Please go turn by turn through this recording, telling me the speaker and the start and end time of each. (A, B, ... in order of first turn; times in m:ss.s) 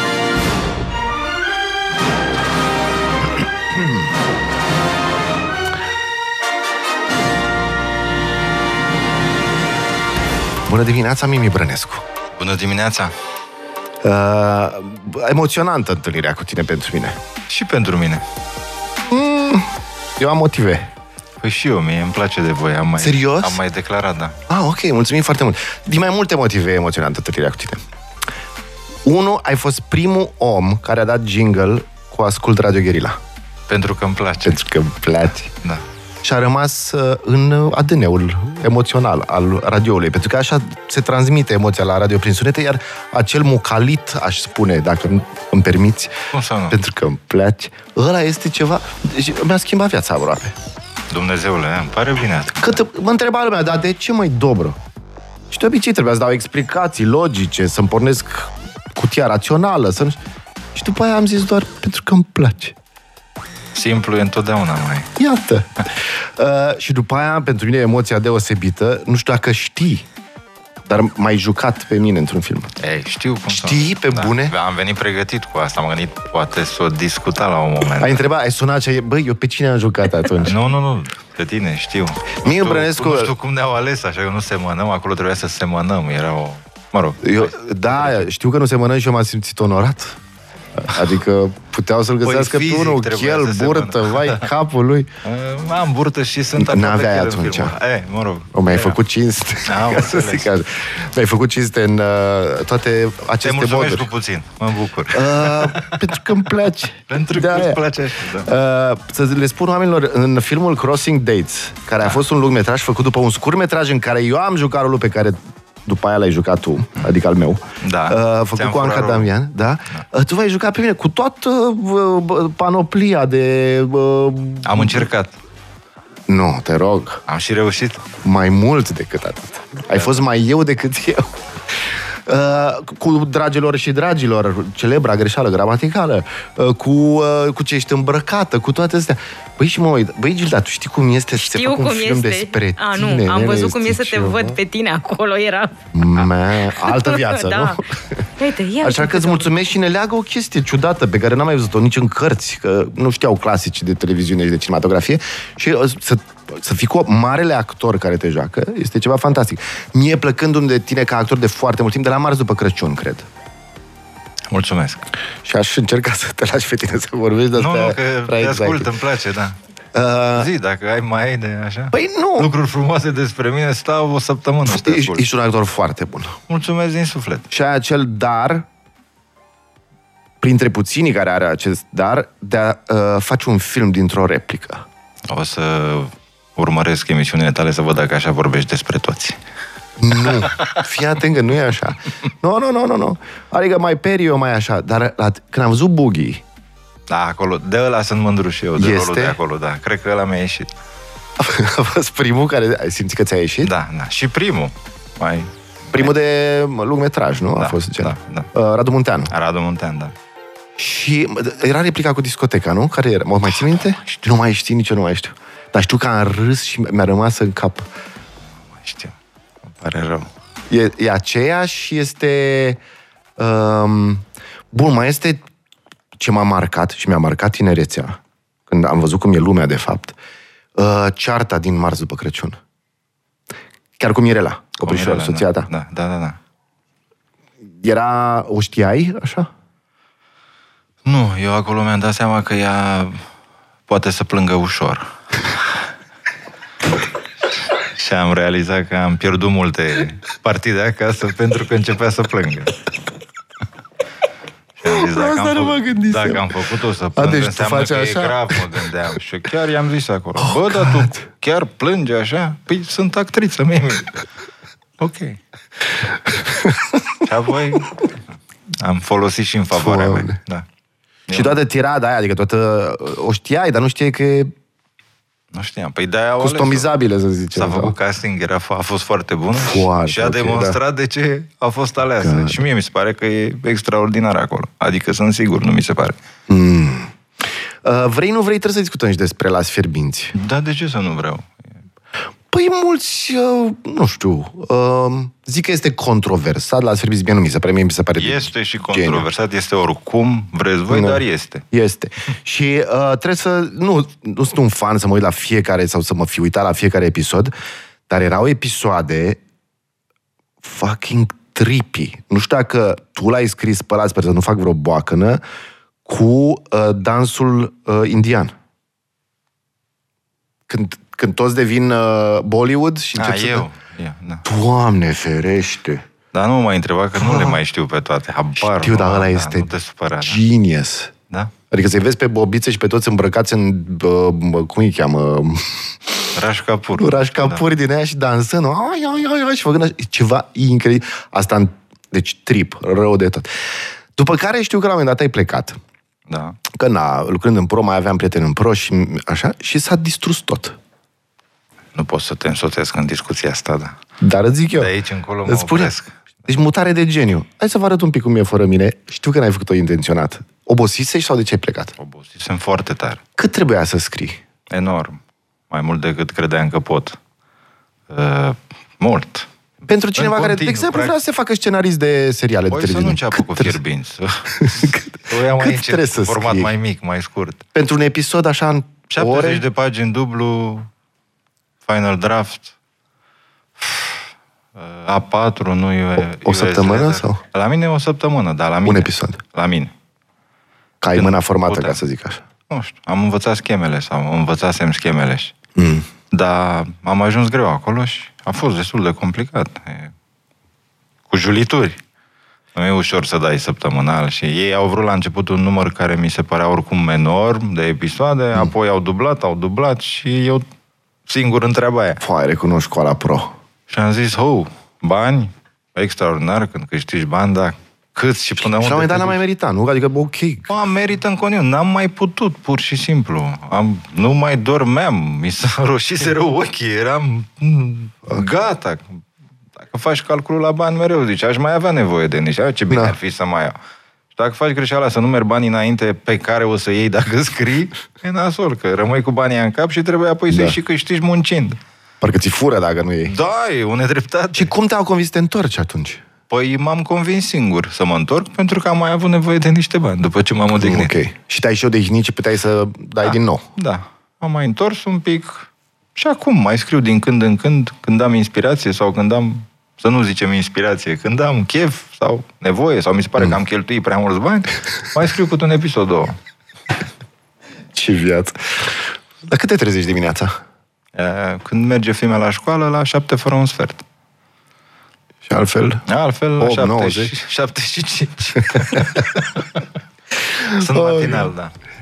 0:03.7-0:04.0 A
0:10.6-0:12.0 A
0:12.4-0:13.1 B
0:14.0-0:17.2 A
0:17.5-0:18.2 B
0:19.0-0:20.9 A
0:21.4-0:24.4 B
0:23.0-0:23.6 A
0:24.5-0:27.8 A
0:29.0-0:33.2 A
0:33.7-0:34.6 B
0:34.4-0:35.5 A
0:36.2-0:46.1 A
0:46.3-0:46.8 B
0:46.7-0:50.5 A
0:51.1-0:52.8 B
0:52.6-0:54.8 A
0:55.5-1:00.2 A
1:00.7-1:02.8 A
1:03.7-1:05.1 B
1:05.2-1:10.0 A
1:10.8-1:12.7 A
1:12.8-1:18.2 B
1:13.5-1:14.5 A
1:18.0-1:20.6 A
1:20.4-1:28.3 B
1:22.4-1:23.3 A
1:27.2-1:30.2 A
1:30.8-1:35.1 A
1:32.2-1:34.5 B
1:35.2-1:39.0 B
1:36.6-1:37.8 A
1:38.5-1:44.1 A
1:39.6-1:40.5 B
1:43.4-1:46.5 B
1:45.1-1:47.8 A
1:47.1-1:48.5 B
1:48.4-2:05.1 A
1:57.8-1:59.3 B
2:04.6-2:05.4 B
2:06.3-2:07.2 A
2:07.3-2:08.0 B
2:08.2-2:24.6 A
2:21.4-2:27.8 C
2:25.9-2:28.3 A
2:28.4-2:29.5 C
2:28.8-2:43.3 A
2:44.5-2:45.1 B
2:45.4-2:48.9 A
2:47.5-2:49.6 B
2:49.9-2:50.5 A
2:50.3-2:55.2 B
2:51.9-2:52.5 A
2:54.6-2:56.4 A
2:56.5-2:57.5 B
2:57.5-2:58.6 A
3:00.4-3:04.8 A
3:05.3-3:09.4 B
3:10.0-3:16.4 A
3:10.2-3:10.8 B
3:17.1-3:20.7 B
3:18.8-3:19.4 A
3:21.4-3:23.7 A
3:23.6-3:26.1 B
3:25.9-3:29.3 A
3:27.6-3:28.5 B
3:29.3-3:30.1 B
3:30.8-3:37.9 A
3:38.7-3:39.2 B
3:39.7-3:40.3 B
3:40.7-3:42.8 A
3:43.4-3:45.4 A
3:46.2-3:50.2 A
3:50.8-3:52.6 A
3:54.0-3:55.7 A
3:54.8-3:56.4 B
3:57.8-3:59.5 A
4:01.0-4:03.2 B
4:03.9-4:05.7 B
4:07.7-4:12.7 B
4:14.8-4:24.2 B
4:14.8-4:16.6 A
4:17.2-4:18.8 A
4:20.4-4:21.2 A
4:25.0-4:25.4 B
4:26.3-4:27.0 A
4:27.2-4:28.1 B
4:28.7-4:30.6 B
4:29.7-4:30.4 A
4:31.3-4:31.6 B
4:31.3-4:34.5 A
4:35.5-4:36.9 B
4:36.4-4:37.9 A
4:37.5-4:46.2 B
4:39.5-4:40.8 A
4:42.2-4:42.6 A
4:46.5-4:50.3 A
4:50.3-4:51.7 B
4:52.5-4:59.3 A
4:58.2-5:01.6 B
5:00.9-5:07.5 A
5:08.1-5:09.4 A
5:10.6-5:15.4 A
5:16.0-5:18.5 A
5:20.7-5:23.6 A
5:23.2-5:24.4 B
5:24.4-5:26.0 A
5:26.3-5:30.4 B
5:27.1-5:27.6 A
5:28.6-5:29.7 A
5:30.2-5:31.1 A
5:31.7-5:35.9 A
5:36.3-5:37.6 B
5:37.0-5:43.5 A
5:44.1-5:45.8 A
5:46.3-5:46.6 B
5:46.7-5:50.8 A
5:51.9-5:54.0 B
5:54.2-5:54.9 A
5:54.7-5:56.2 B
5:55.4-5:55.9 A
5:56.4-6:01.9 A
6:02.0-6:03.2 B
6:03.4-6:04.4 A
6:04.7-6:07.2 B
6:08.1-6:09.5 B
6:09.8-6:13.8 A
6:10.1-6:11.1 B
6:12.7-6:17.6 B
6:14.5-6:16.7 A
6:17.7-6:19.6 A
6:19.1-6:20.9 B
6:21.8-6:22.7 B
6:23.8-6:24.2 B
6:24.8-6:29.9 B
6:26.4-6:27.4 A
6:28.8-6:29.4 A
6:31.0-6:32.4 A
6:31.1-6:32.0 B
6:32.7-6:35.5 B
6:35.8-6:36.1 A
6:36.3-6:40.1 B
6:41.3-6:42.0 B
6:42.7-6:50.6 B
6:51.3-6:52.2 B
6:52.2-6:53.5 A
6:53.9-6:59.4 B
6:58.6-7:00.7 A
7:00.7-7:09.2 B
7:09.8-7:13.8 B
7:12.9-7:13.2 A
7:14.3-7:21.8 B
7:20.5-7:20.7 A
7:22.2-7:23.3 A
7:23.2-7:24.7 B
7:24.5-7:26.2 A
7:26.5-7:31.1 B
7:30.8-7:33.6 A
7:33.2-7:46.4 B
7:47.9-7:50.6 A
7:51.1-7:54.0 B
7:55.4-7:56.0 A
7:56.1-7:59.7 B
7:56.6-7:57.3 A
7:58.7-7:59.2 A
8:00.5-8:01.5 A
8:00.7-8:01.7 B